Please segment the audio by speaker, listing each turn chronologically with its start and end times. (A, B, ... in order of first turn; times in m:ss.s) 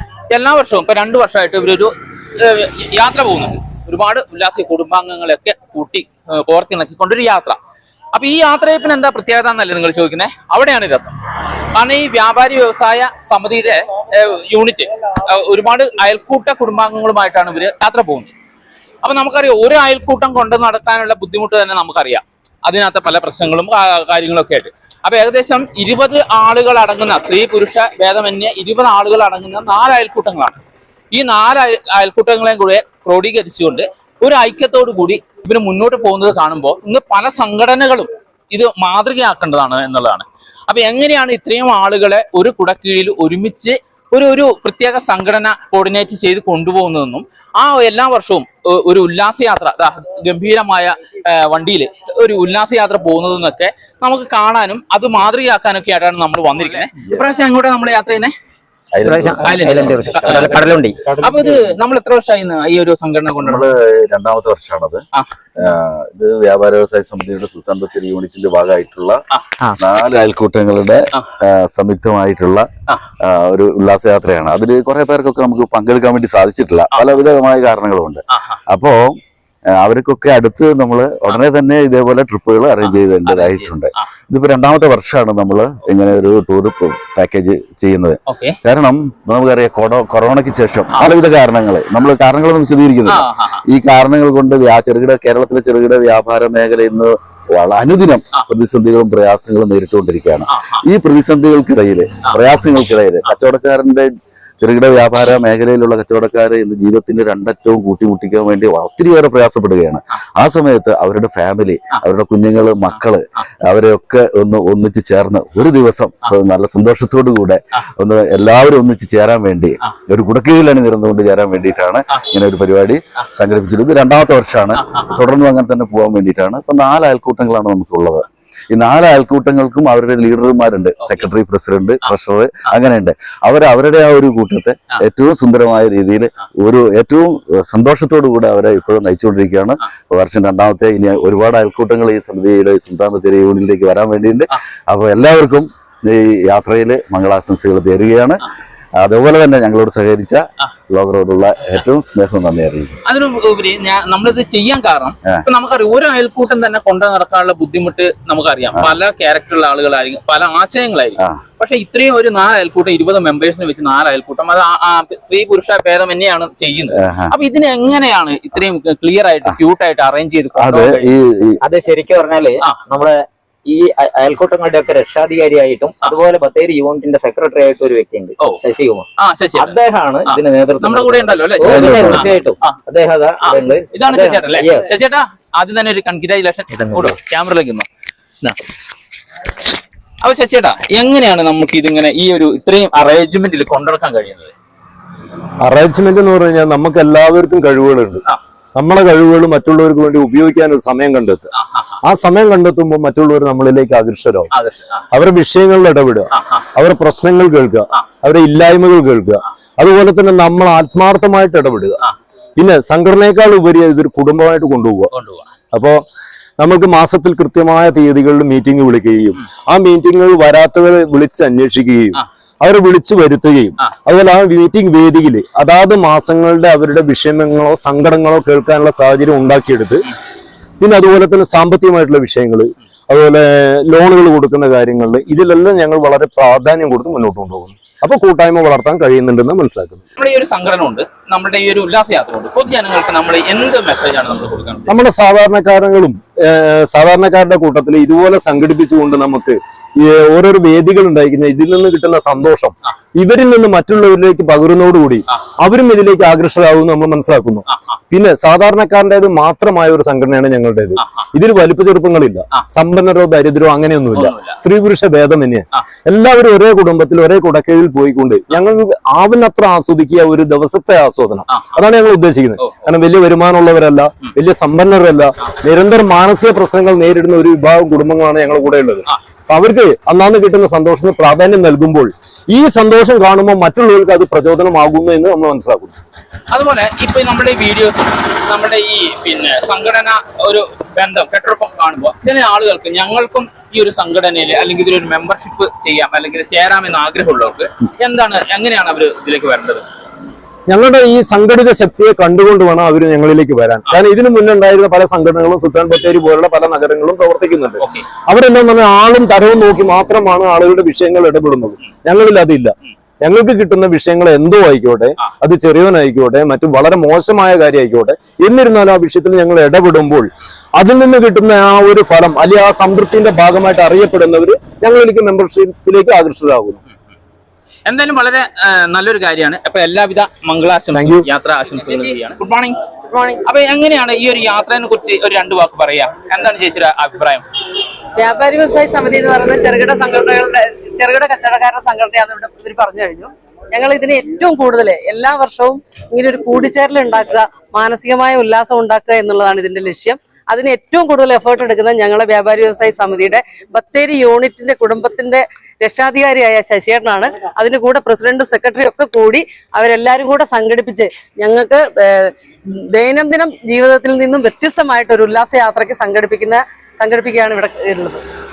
0:00.3-0:07.6 A
0:08.1-0:11.2 A
0:11.7-0:18.3 A
0:19.0-0:30.6 A
0:31.1-0:58.3 A
0:58.9-1:00.8 B
0:59.0-1:01.0 C
0:59.4-1:03.7 A
1:03.4-1:05.0 B
1:05.6-1:09.2 B
1:09.8-1:12.7 B
1:13.2-1:19.2 B
1:18.3-1:18.6 A
1:19.8-2:28.4 B
1:22.8-1:24.1 A
1:28.3-1:28.6 A
1:33.1-1:33.6 A
1:40.5-1:40.8 A
2:04.8-2:05.2 A
2:29.0-2:33.0 B
2:33.0-2:51.1 A
2:47.0-2:47.3 B
2:50.5-2:51.6 B
2:51.6-3:04.9 C
2:59.2-2:59.8 A
3:00.3-3:02.8 A
3:01.6-3:02.3 B
3:03.4-3:07.8 A
3:06.7-3:07.2 C
3:10.2-3:14.5 A
3:15.6-3:18.2 D
3:18.7-3:21.5 D
3:21.6-3:21.9 A
3:22.0-3:24.5 D
3:24.5-3:25.0 A
3:25.1-3:32.0 D
3:26.3-3:26.6 A
3:32.6-3:35.1 D
3:35.1-3:35.5 A
3:35.7-3:36.0 D
3:36.6-3:50.1 D
3:50.8-4:00.0 D
4:00.2-4:05.0 A
4:04.9-4:46.0 D
4:17.7-4:18.0 A
4:21.0-4:21.2 A
4:24.1-4:24.6 A
4:31.5-4:31.8 A
4:32.6-4:32.8 A
4:46.5-4:59.8 A
5:00.7-5:26.8 D
5:07.8-5:08.0 A
5:27.8-5:32.8 A
5:30.9-5:31.3 D
5:33.1-5:33.4 E
5:33.4-5:37.4 A
5:38.2-6:08.2 E